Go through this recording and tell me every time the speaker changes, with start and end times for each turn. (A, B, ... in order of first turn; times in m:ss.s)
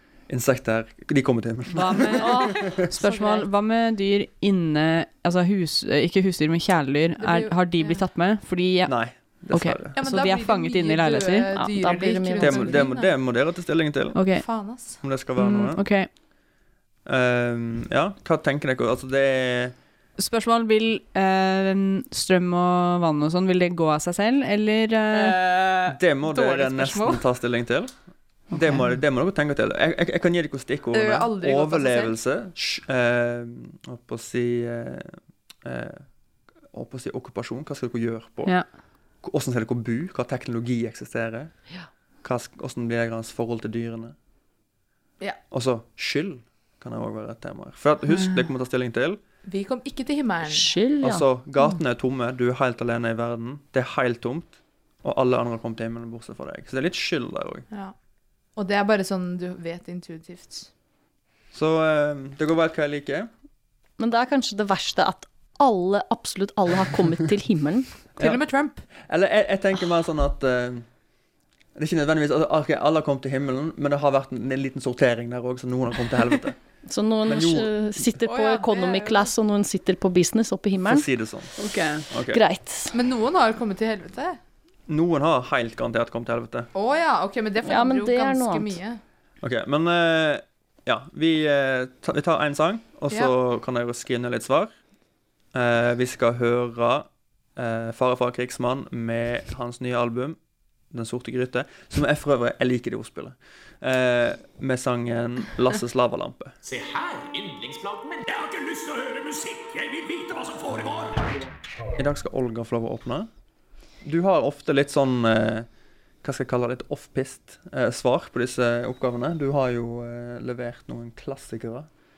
0:00.3-0:02.9 A
0:01.7-0:11.5 B
0:02.2-0:03.5 C
0:07.2-0:08.0 D
0:08.9-0:10.0 A
0:10.0-0:13.1 D
0:11.6-0:12.9 C
0:12.4-0:14.2 A
0:14.2-0:14.4 B
0:14.3-0:15.0 D
0:15.0-0:15.8 A
0:15.4-0:16.1 B
0:17.1-0:19.7 A
0:20.2-0:25.4 B
0:25.1-0:27.2 D
0:25.9-0:27.9 A
0:28.5-0:36.0 A
0:28.5-0:28.8 B
0:30.9-0:32.1 D
0:36.7-0:38.6 A
0:39.2-0:41.5 A
0:42.2-0:44.2 A
0:45.5-0:49.2 A
0:48.1-0:48.4 B
0:49.5-0:50.7 D
0:50.5-0:51.2 C
0:51.0-0:57.7 A
0:58.6-1:00.7 D
1:01.5-1:03.3 A
1:04.0-1:07.9 C
1:08.2-1:08.4 A
1:08.2-1:08.8 D
1:09.0-1:10.8 A
1:11.8-1:16.6 A
1:16.9-1:21.0 C
1:17.3-1:18.0 A
1:18.2-1:19.3 D
1:20.8-1:21.5 A
1:21.6-1:22.0 B
1:22.1-1:22.4 A
1:22.3-1:23.0 C
1:22.9-1:24.4 D
1:24.9-1:26.7 A
1:26.7-1:29.0 D
1:27.6-1:28.8 C
1:29.4-1:34.7 A
1:35.5-1:40.4 A
1:40.9-1:46.6 A
1:46.6-1:51.4 E
1:52.0-1:53.3 A
1:54.0-1:55.7 A
1:56.2-2:01.9 A